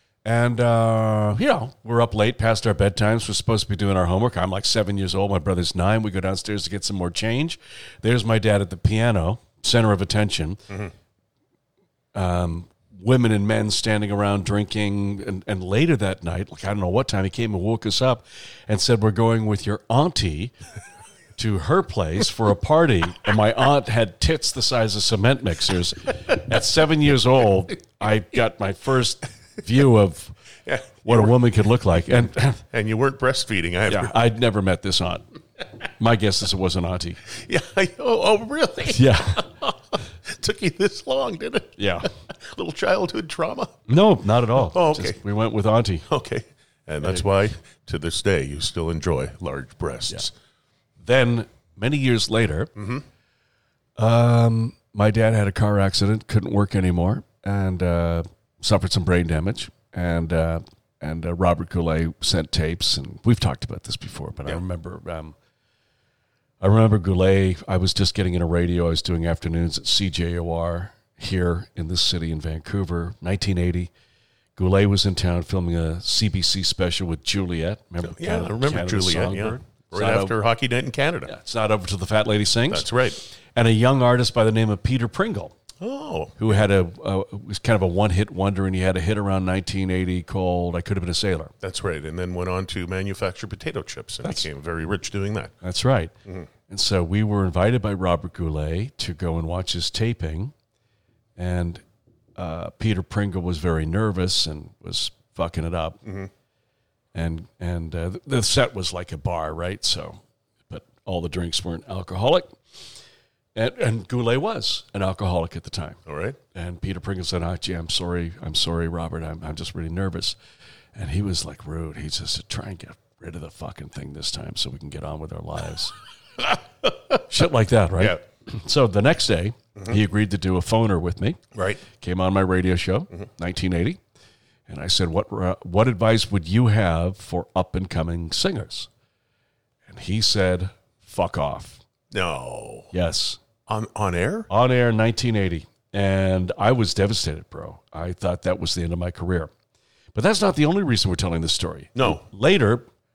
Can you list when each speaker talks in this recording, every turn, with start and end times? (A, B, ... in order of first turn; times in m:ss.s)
0:00.2-0:10.7 A
0:12.1-0:20.5 A
0:21.4-0:30.4 A
0:30.7-0:31.4 B
0:31.0-0:32.6 A
0:32.7-0:34.2 B
0:33.9-0:35.2 A
0:35.8-0:37.2 A
0:37.3-0:43.9 B
0:38.9-0:39.5 A
0:41.8-0:42.1 A
0:43.9-0:46.1 A
0:44.6-0:45.2 B
0:46.1-0:50.3 B
0:51.0-0:52.7 A
0:52.8-0:53.0 B
0:54.0-1:05.4 A
1:06.6-1:13.9 A
1:14.6-1:20.4 A
1:18.0-1:21.3 B
1:21.3-1:25.5 A
1:22.7-1:23.2 B
1:25.8-1:26.6 B
1:26.4-1:31.5 A
1:31.6-1:35.5 B
1:35.6-1:36.1 A
1:36.7-1:40.5 A
1:41.4-1:41.8 A
1:42.4-1:46.0 A
1:46.0-1:46.3 B
1:47.1-1:52.6 A
1:53.6-1:56.0 A
1:56.1-1:56.4 B
1:56.5-2:00.4 A
2:01.0-2:05.9 A
2:07.2-2:14.0 A
2:11.5-2:11.8 B
2:14.7-2:18.9 A
2:19.9-2:21.8 A
2:22.1-2:22.9 B
2:22.9-2:23.4 A
2:23.7-2:24.5 B
2:24.5-2:29.5 A
2:30.1-2:32.9 A
2:32.0-2:32.2 B